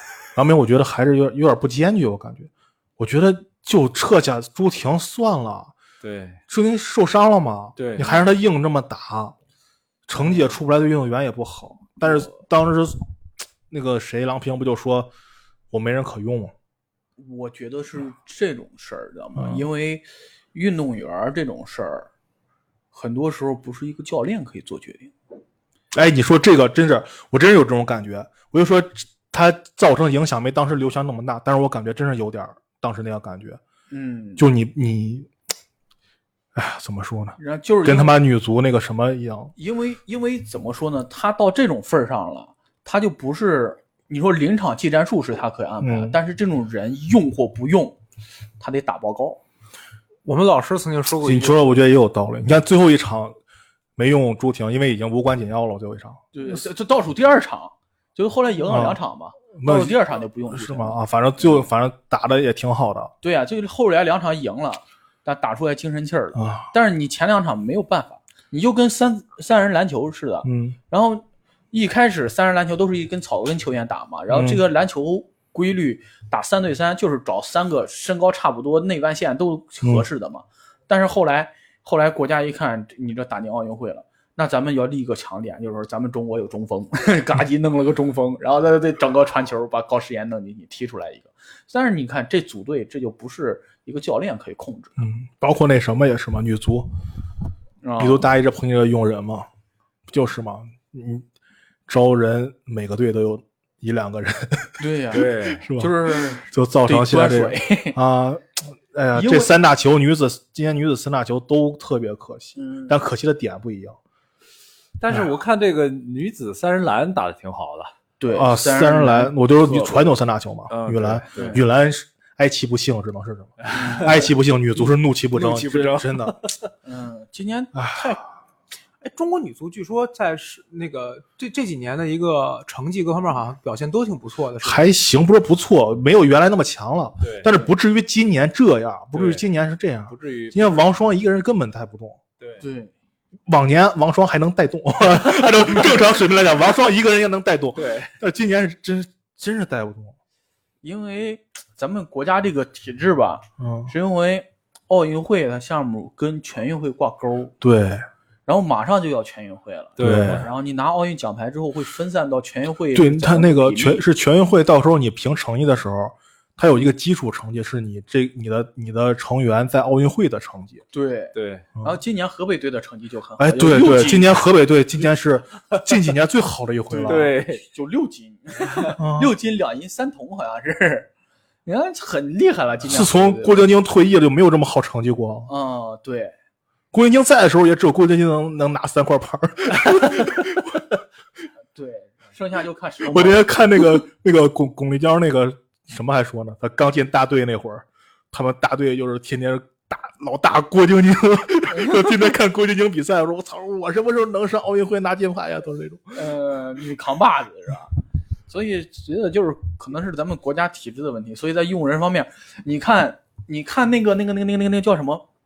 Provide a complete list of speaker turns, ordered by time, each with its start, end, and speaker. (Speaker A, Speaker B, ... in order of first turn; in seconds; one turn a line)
Speaker A: 0.3-5.8
Speaker B: 6.0-6.4
Speaker A: 6.5-9.3
Speaker B: 7.8-8.2
Speaker A: 10.1-13.0
Speaker A: 13.7-15.1
Speaker A: 15.7-16.5
Speaker C: 17.2-22.1
Speaker A: 19.4-19.6
Speaker C: 22.9-25.1
Speaker A: 25.9-33.6
Speaker C: 33.9-34.5
Speaker A: 34.4-35.3
Speaker A: 36.5-39.5
Speaker C: 37.4-38.1
Speaker C: 39.6-48.0
Speaker A: 45.8-46.2
Speaker C: 48.6-49.4
Speaker D: 50.2-51.6
Speaker A: 51.2-53.4
Speaker A: 54.0-56.6
Speaker C: 56.3-61.0
Speaker A: 58.7-59.0
Speaker A: 59.5-60.0
Speaker A: 60.5-63.1
Speaker C: 63.2-95.0
Speaker A: 66.3-66.7
Speaker A: 70.4-70.8
Speaker A: 74.3-74.6
Speaker A: 95.0-96.9
Speaker C: 97.8-98.3
Speaker A: 98.0-99.5
Speaker A: 100.1-101.2
Speaker A: 101.9-104.8
Speaker C: 104.8-108.0
Speaker B: 105.1-105.7
Speaker A: 105.5-114.0
Speaker C: 109.1-109.5
Speaker C: 112.6-113.0
Speaker B: 115.0-117.9
Speaker C: 118.2-120.0
Speaker A: 118.3-126.4
Speaker B: 120.7-121.6
Speaker C: 121.4-121.6
Speaker B: 123.6-126.7
Speaker C: 123.7-124.3
Speaker C: 126.8-128.2
Speaker A: 127.8-128.2
Speaker D: 129.0-134.9
Speaker A: 134.6-142.2
Speaker B: 137.2-137.6
Speaker B: 139.1-139.4
Speaker B: 140.1-140.8
Speaker C: 142.6-142.9
Speaker A: 143.5-150.2
Speaker B: 147.8-148.1
Speaker C: 150.8-157.5
Speaker A: 153.6-153.9
Speaker A: 157.6-158.1
Speaker C: 158.5-164.0
Speaker B: 160.0-160.5
Speaker A: 160.0-160.5
Speaker A: 162.9-170.8
Speaker C: 170.9-174.4
Speaker B: 171.3-171.7
Speaker A: 173.4-177.3
Speaker C: 176.9-181.1
Speaker B: 177.1-177.6
Speaker A: 179.0-179.3
Speaker C: 181.7-183.6
Speaker A: 182.8-185.5
Speaker C: 185.5-186.3
Speaker A: 186.9-190.9
Speaker C: 191.7-193.5
Speaker A: 193.1-206.2
Speaker C: 201.7-202.1
Speaker C: 206.2-207.9
Speaker C: 208.5-215.2